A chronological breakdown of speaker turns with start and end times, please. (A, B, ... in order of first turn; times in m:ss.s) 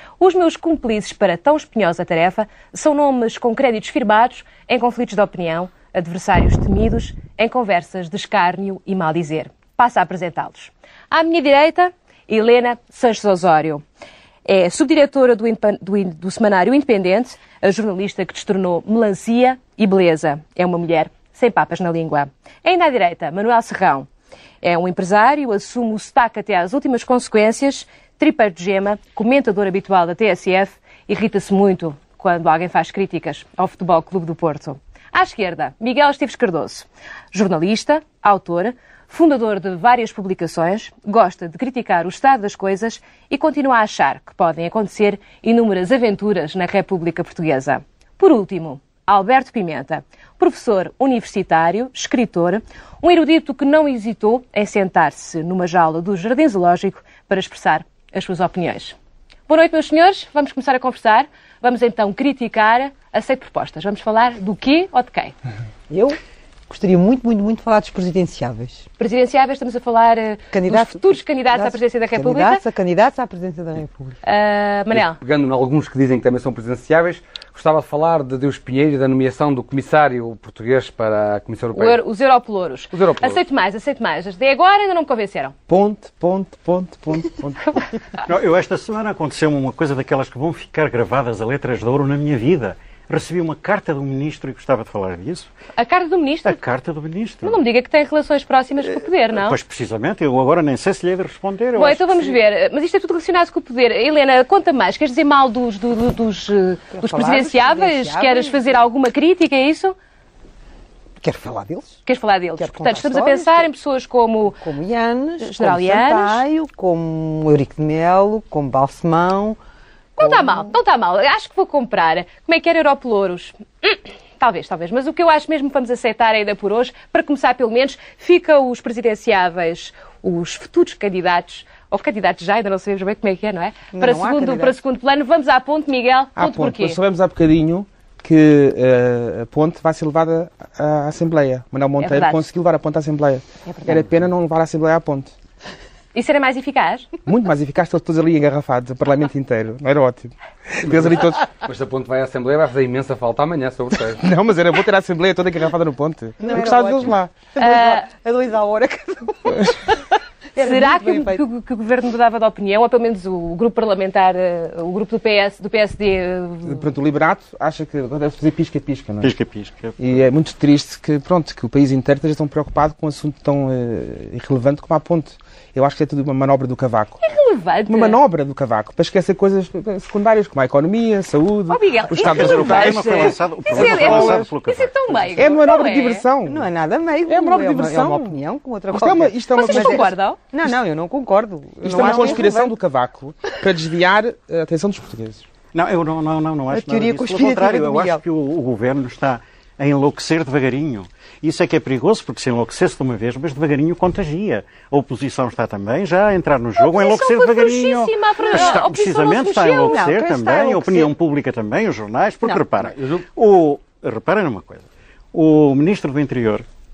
0:00.2-0:13.8 A
0:14.4-0:24.1 A
0:24.6-0:59.0 A
0:59.5-1:05.3 A
1:05.9-1:06.2 B
1:06.7-1:08.9 B
1:09.0-1:12.6 A
1:10.5-1:14.2 B
1:14.2-1:15.2 A
1:14.9-1:22.0 C
1:21.7-1:25.5 A
1:22.9-1:23.4 C
1:25.7-1:27.9 D
1:28.2-1:35.5 E
1:35.8-1:36.6 A
1:36.4-1:37.6 E
1:37.4-1:39.6 A
1:39.3-1:42.4 E
1:41.8-1:50.0 A
1:46.9-1:48.8 B
1:51.2-1:52.0 B
1:52.1-1:54.6 A
1:52.6-1:53.7 B
1:54.6-1:59.6 B
1:55.4-1:56.4 A
2:00.2-2:17.0 A
2:00.2-2:00.7 B
2:13.9-2:14.8 B
2:16.4-2:25.3 D
2:22.0-2:22.4 A
2:26.1-2:27.1 A
2:27.3-2:31.5 D
2:30.8-2:34.2 C
2:34.2-2:37.3 D
2:36.4-2:40.0 B
2:37.6-2:38.1 A
2:40.6-2:41.4 B
2:40.6-2:46.8 A
2:46.6-2:49.3 D
2:49.2-2:50.1 E
2:50.0-2:57.2 D
2:57.2-2:58.2 A
2:57.9-3:04.5 D
3:01.7-3:06.2 A
3:02.1-3:05.5 E
3:05.4-3:06.7 D
3:06.4-3:12.7 B
3:07.3-3:08.4 D
3:08.9-3:10.1 D
3:09.6-3:10.4 A
3:11.8-3:15.4 D
3:15.7-3:36.6 E
3:16.7-3:18.2 B
3:26.8-3:30.0 A
3:28.5-3:28.8 B
3:29.7-3:31.1 B